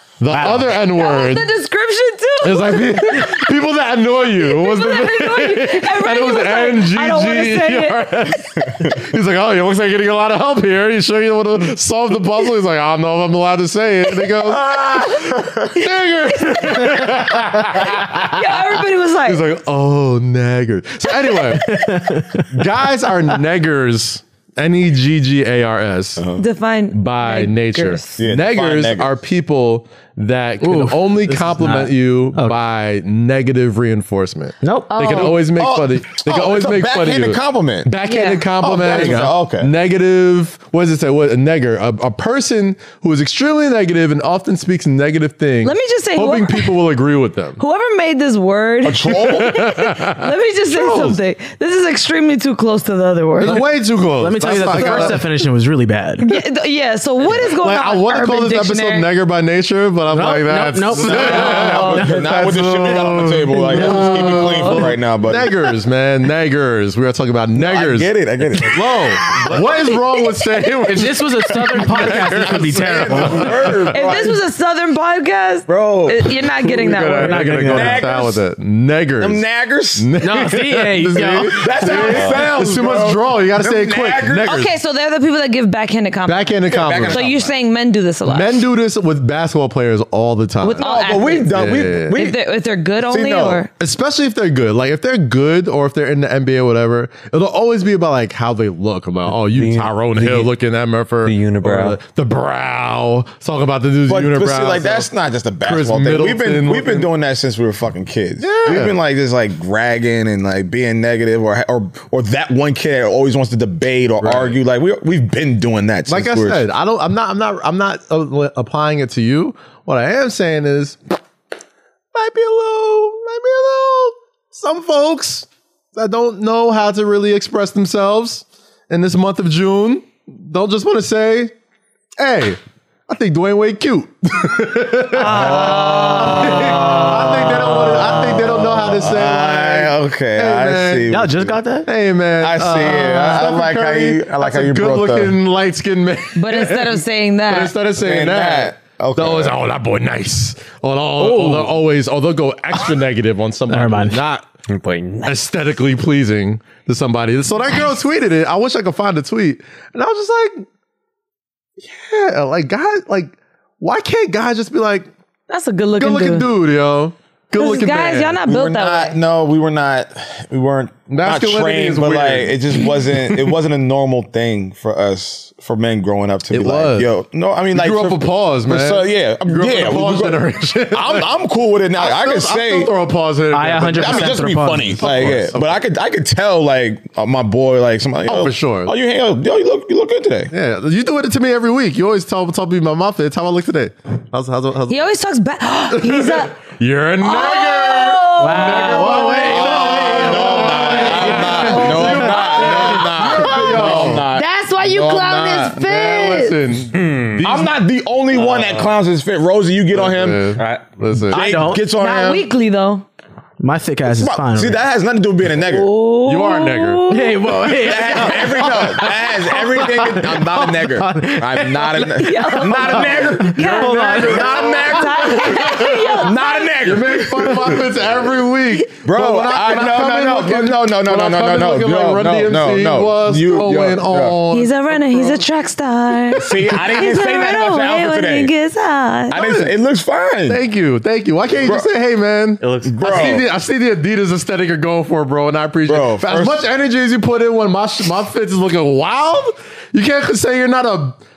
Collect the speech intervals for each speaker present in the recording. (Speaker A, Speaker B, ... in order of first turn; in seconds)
Speaker A: 0.2-1.5, 2.4-14.7, 15.7-18.5, 19.2-26.2, 26.9-47.6, 49.1-51.2, 53.4-55.3, 57.3-68.1, 68.7-74.0, 76.6-79.5, 80.0-84.7, 86.2-87.3, 88.3-90.9, 91.5-92.2, 93.8-105.1, 105.6-107.1, 108.4-109.0, 114.2-114.6, 116.1-121.1, 122.1-131.5, 132.2-141.2, 141.8-154.5, 155.2-160.7, 161.8-165.1, 166.0-168.4, 171.1-173.4, 176.5-177.1, 177.7-181.3, 181.9-185.8, 188.2-188.9, 190.5-195.1, 195.9-204.3, 205.7-207.7, 209.9-211.4, 216.2-219.4, 223.4-226.2, 226.8-235.4, 236.3-236.8, 239.3-239.7, 240.5-251.2
Speaker B: 0.4-0.6, 21.5-22.6, 30.6-32.6, 34.6-35.3, 54.2-56.3, 60.1-62.0, 70.9-73.7, 77.1-78.0, 80.2-81.6, 141.1-141.9, 151.2-151.7, 153.7-154.2, 183.5-185.4, 198.4-201.3, 211.3-211.9, 213.6-214.8, 217.1-224.3
Speaker C: 0.5-3.5, 4.4-8.3, 16.5-17.2, 18.0-19.4, 26.4-28.2, 34.9-35.4, 38.1-38.5, 45.6-46.7, 47.6-53.6, 54.5-55.2, 56.2-59.1, 61.2-62.0, 63.7-64.8, 73.9-77.5, 84.4-88.7, 90.6-93.7, 135.1-137.1, 142.9-143.4, 146.4-147.8, 165.5-166.5, 167.6-169.2, 194.9-196.6, 197.2-199.6, 200.7-206.6, 211.9-213.1, 215.6-217.5, 222.2-226.8, 234.5-239.4
Speaker D: 14.4-15.7, 26.2-26.4, 28.2-29.2, 35.6-37.9, 38.6-39.7, 48.8-49.6, 61.0-65.5, 67.6-70.0, 72.7-74.4, 75.7-76.2, 77.7-78.4, 79.2-80.1, 81.5-84.7, 86.7-87.5, 90.8-92.4, 93.1-93.7, 104.1-116.6, 135.2-141.6, 142.4-145.4, 148.0-149.6, 168.5-182.9, 184.0-190.5, 199.5-205.8, 207.4-210.6, 211.3-212.4, 214.1-215.9, 217.8-227.9, 229.0-234.4, 236.4-238.5, 239.3-240.6, 241.6-241.9, 242.8-243.4, 245.9-246.6
Speaker E: 82.0-82.5, 99.5-100.5, 101.2-102.0, 154.7-155.3, 206.9-207.5, 208.3-209.0, 210.6-210.9, 242.6-243.4